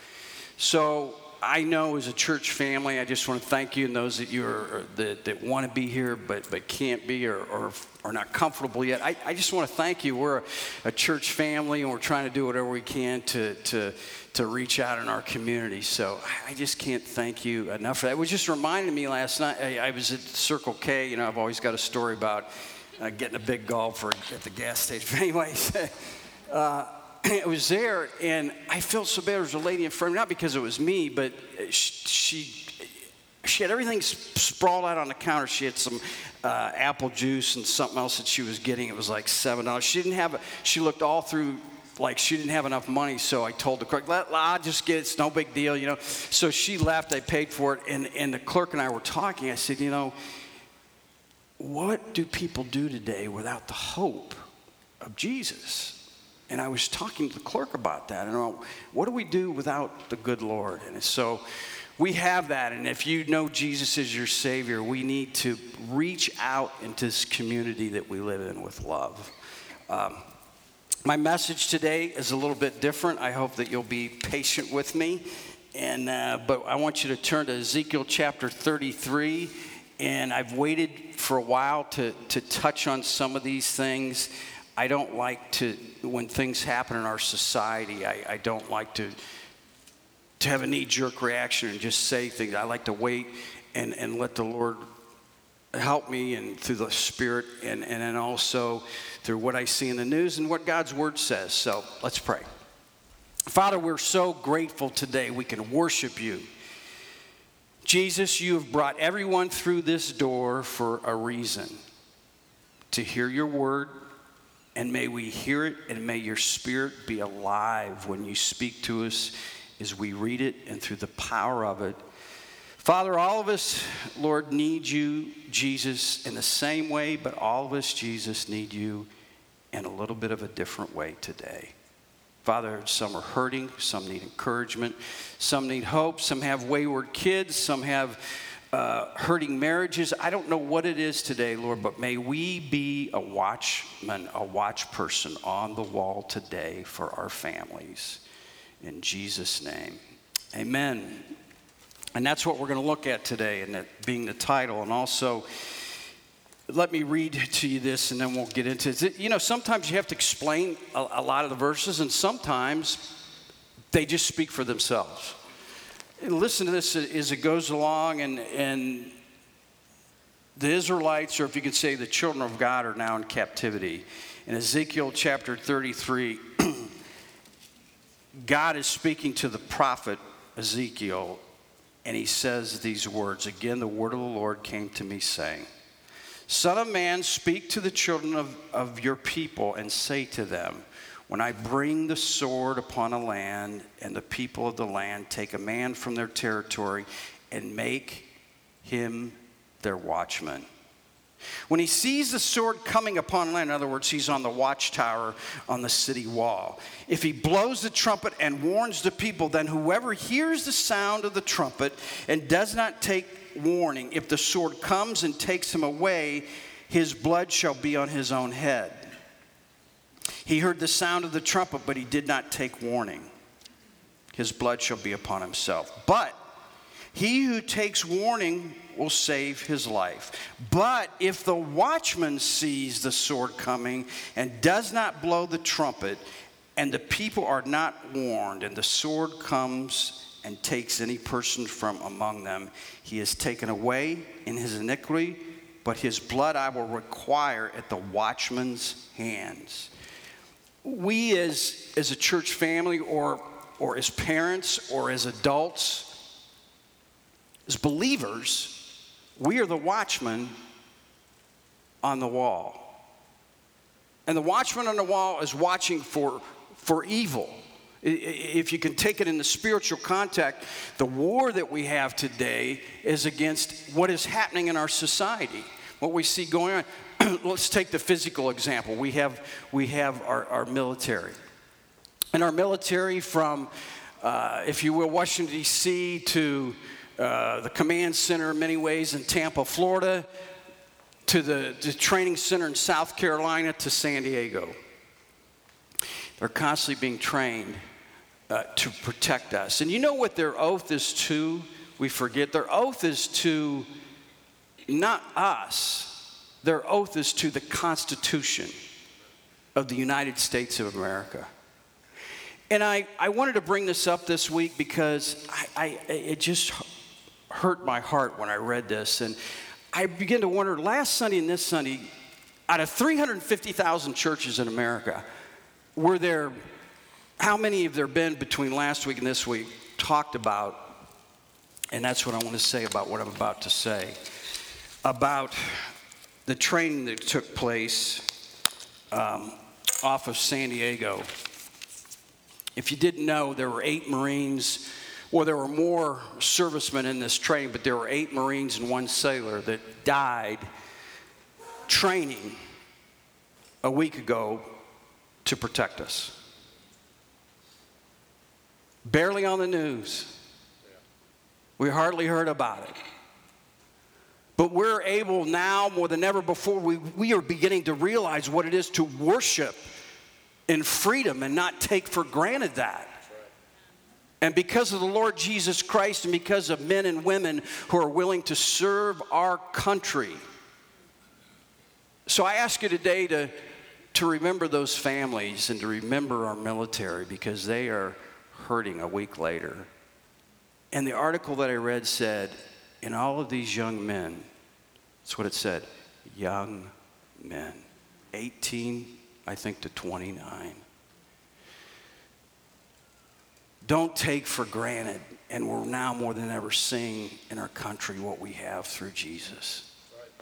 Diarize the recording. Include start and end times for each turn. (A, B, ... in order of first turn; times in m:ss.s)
0:00.6-0:50.2 A
0:51.6-0:54.4 A
0:55.0-1:01.4 A
1:02.0-1:09.3 A
1:09.9-1:10.2 A
1:11.0-1:29.2 A
1:30.4-1:34.8 A
1:35.7-1:42.5 A
1:43.5-1:46.5 A
1:47.8-1:51.8 A
1:52.9-1:54.0 A
1:54.8-2:02.0 A
2:02.8-2:09.1 A
2:09.7-2:11.7 A
2:12.4-2:28.2 A
2:28.8-2:30.0 A
2:30.5-2:31.3 A
2:32.2-2:35.5 A
2:36.7-2:43.2 A
2:43.9-2:45.4 A
2:46.2-2:49.2 A
2:50.6-2:56.9 A
2:58.4-3:01.4 A
3:02.0-3:05.7 A
3:06.5-3:18.3 A
3:18.8-3:20.7 A
3:21.7-3:39.1 A
3:40.4-3:43.3 A
3:44.3-3:46.4 A
3:47.1-3:56.2 A
3:56.8-4:09.9 A
4:10.8-4:16.2 A
4:17.7-4:18.8 A
4:19.4-4:20.5 A
4:22.0-4:23.0 A
4:24.3-4:41.4 A
4:42.3-4:50.3 A
4:51.2-4:54.8 A
4:56.4-4:57.8 A
4:58.5-5:03.9 A
5:04.9-5:08.8 A
5:09.8-5:11.5 A
5:12.7-5:16.9 A
5:17.5-5:19.4 A
5:19.9-5:22.1 A
5:22.7-5:25.2 A
5:26.0-5:26.6 A
5:27.4-5:31.0 A
5:31.9-5:34.2 A
5:35.0-5:35.9 A
5:36.5-5:38.3 A
5:39.1-5:41.3 A
5:42.8-5:50.6 A
5:51.9-5:52.6 A
5:53.8-5:54.7 A
5:55.4-5:56.4 A
5:59.0-6:00.4 A
6:01.8-6:03.0 A
6:04.6-6:09.8 A
6:10.7-6:13.2 A
6:14.4-6:20.4 A
6:22.3-6:23.5 A
6:24.1-6:29.9 A
6:30.9-6:34.5 A
6:35.2-6:40.8 A
6:43.8-6:49.9 A